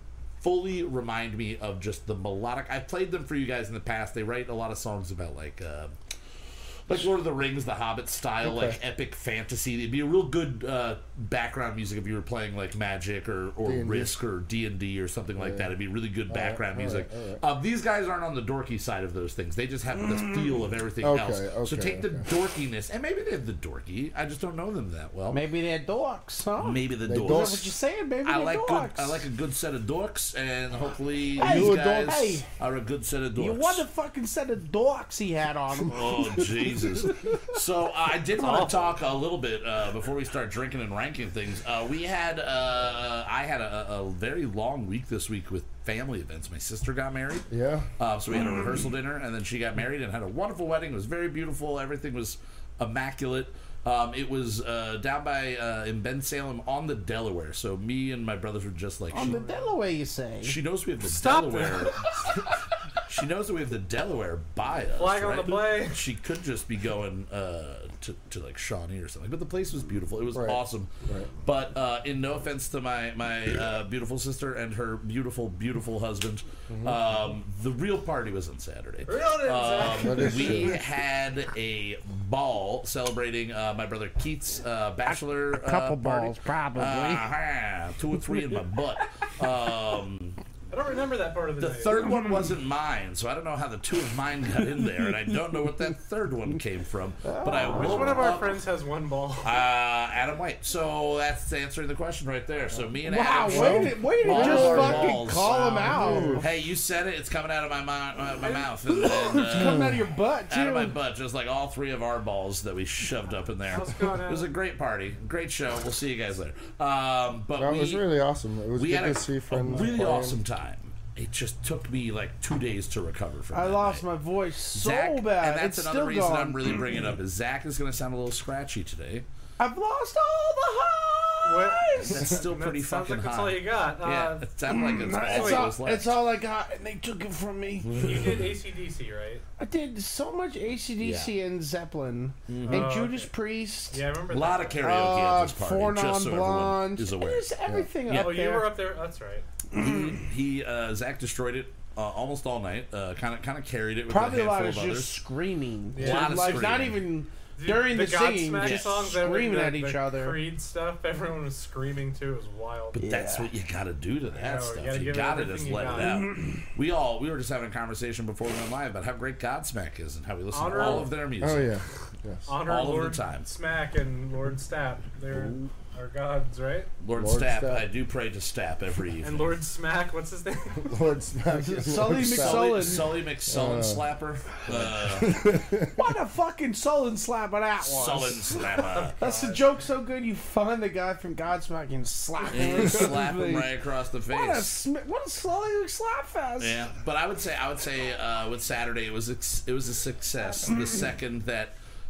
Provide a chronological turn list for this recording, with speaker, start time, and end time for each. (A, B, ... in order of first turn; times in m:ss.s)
0:00.4-0:05.9 A
0:06.9-0:25.5 A
0:08.4-0:08.8 B
0:13.6-0:14.1 B
0:15.4-0:15.7 B
0:16.3-0:17.4 B
0:21.0-0:22.2 B
0:25.3-0:29.2 C
0:26.6-0:33.9 A
0:27.0-0:27.6 B
0:31.4-0:32.4 C
0:31.4-0:32.2 B
0:33.4-0:36.0 C
0:35.8-0:47.5 A
0:38.4-0:38.9 D
0:47.5-0:47.9 B
0:48.0-0:59.5 A
0:59.1-1:00.6 C
0:59.2-0:59.7 D
1:00.4-1:02.5 A
1:01.0-1:01.9 D
1:03.0-1:10.9 A
1:05.0-1:06.0 D
1:10.3-1:11.3 B
1:11.4-1:30.4 A
1:16.7-1:17.0 B
1:19.0-1:20.7 D
1:19.9-1:20.8 B
1:25.1-1:27.2 C
1:30.7-1:32.1 D
1:31.6-1:38.6 A
1:37.2-1:38.4 C
1:37.7-1:39.6 D
1:39.4-1:50.0 A
1:43.0-1:46.4 C
1:43.4-1:45.2 B
1:45.7-1:46.3 D
1:45.8-1:46.5 B
1:48.4-1:48.7 D
1:48.9-1:50.9 C
1:50.5-1:58.1 A
1:53.7-1:54.5 D
1:57.6-2:00.4 B
1:58.7-2:04.1 A
2:03.5-2:06.8 C
2:04.7-2:09.2 A
2:09.6-2:12.1 C
2:11.4-2:14.5 D
2:12.0-2:16.1 A
2:14.7-2:18.1 C
2:15.2-2:15.7 D
2:17.9-2:18.6 A
2:18.0-2:19.4 D
2:19.6-2:24.0 C
2:21.0-2:21.4 A
2:22.5-2:22.9 A
2:22.6-2:23.3 D
2:23.9-2:24.8 D
2:24.3-2:28.4 A
2:24.8-2:28.7 C
2:28.1-2:29.5 D
2:29.7-2:35.2 A
2:34.1-2:40.4 C
2:35.9-2:36.8 D
2:36.0-2:37.0 A
2:37.5-2:43.0 D
2:38.6-2:39.1 A
2:42.9-2:51.8 A
2:43.0-2:43.5 C
2:44.3-2:46.3 D
2:50.5-2:51.1 D
2:51.4-2:52.6 B
2:52.5-2:56.9 D
2:52.6-2:53.5 A
2:57.0-2:59.6 A
2:57.1-2:57.9 B
2:59.2-3:01.0 D
3:00.8-3:04.1 B
3:01.5-3:03.1 C
3:01.9-3:05.5 A
3:04.7-3:06.1 B
3:05.9-3:08.4 C
3:07.8-3:09.2 A
3:08.9-3:09.8 D
3:09.2-3:13.7 C
3:12.5-3:14.8 A
3:14.3-3:16.7 C
3:16.6-3:21.7 A